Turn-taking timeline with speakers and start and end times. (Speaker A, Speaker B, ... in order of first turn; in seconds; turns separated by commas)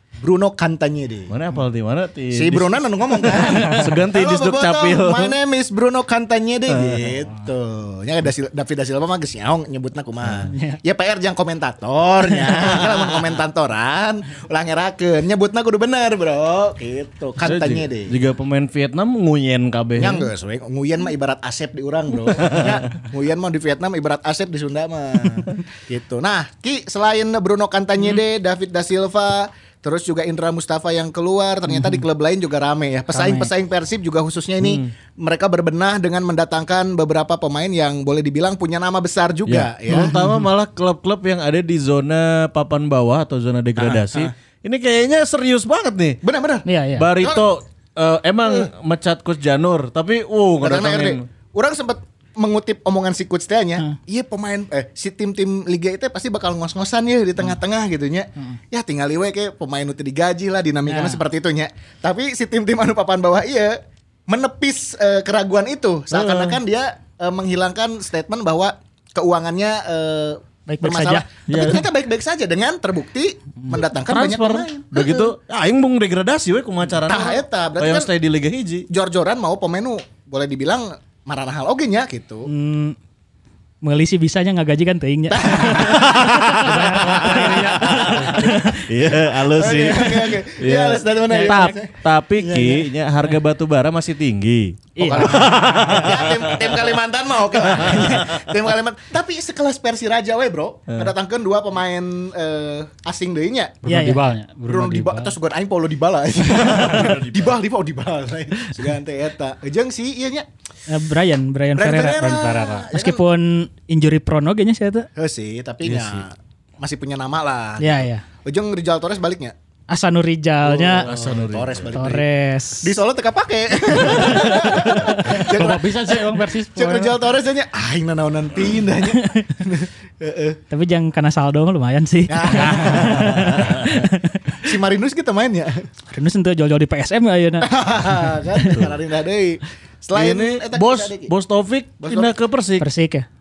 Speaker A: 0.2-1.3, Speaker B: 1.3-5.3, Speaker A: 2.3-18.2, Speaker B: 6.7-7.1, Speaker C: 10.5-10.8, Speaker B: 12.8-13.2, Speaker B: 17.4-20.3, Speaker A: 20.0-40.2, Speaker B: 22.3-22.9, Speaker C: 31.7-32.0, Speaker C: 33.1-33.5, Speaker B: 34.6-34.9, Speaker B: 39.5-46.2, Speaker C: 39.9-40.3, Speaker A: 43.8-44.3, Speaker A: 46.2-47.5, Speaker C: 46.6-47.1, Speaker B: 47.0-51.2, Speaker A: 50.6-63.8, Speaker C: 60.9-61.2, Speaker A: 64.3-75.3, Speaker B: 66.1-66.6, Speaker C: 70.7-71.2, Speaker B: 71.5-71.8, Speaker B: 74.0-78.9, Speaker A: 77.0-78.1, Speaker A: 78.9-82.5, Speaker C: 82.5-83.0, Speaker C: 83.8-88.8, Speaker A: 85.3-92.9, Speaker B: 85.7-96.9, Speaker D: 87.1-88.0, Speaker C: 91.3-91.7, Speaker C: 95.0-95.5, Speaker A: 95.0-103.8, Speaker B: 97.7-98.5, Speaker D: 103.8-105.3, Speaker C: 103.8-104.2, Speaker A: 104.7-110.5, Speaker B: 106.5-107.5, Speaker C: 110.9-112.4, Speaker A: 111.7-113.2, Speaker D: 112.1-112.9, Speaker C: 112.9-115.1, Speaker A: 115.2-119.5, Speaker B: 115.8-116.2, Speaker C: 117.8-118.2, Speaker C: 119.9-121.1, Speaker A: 120.6-122.2, Speaker B: 121.0-121.9, Speaker C: 121.9-123.0, Speaker A: 122.8-130.6, Speaker C: 124.0-125.4, Speaker D: 125.2-127.2, Speaker C: 129.1-129.4, Speaker C: 130.7-134.6, Speaker A: 132.3-135.8, Speaker B: 132.9-133.9, Speaker C: 136.1-138.8, Speaker A: 137.6-141.3, Speaker B: 140.1-142.9, Speaker A: 142.0-142.3, Speaker C: 142.8-143.3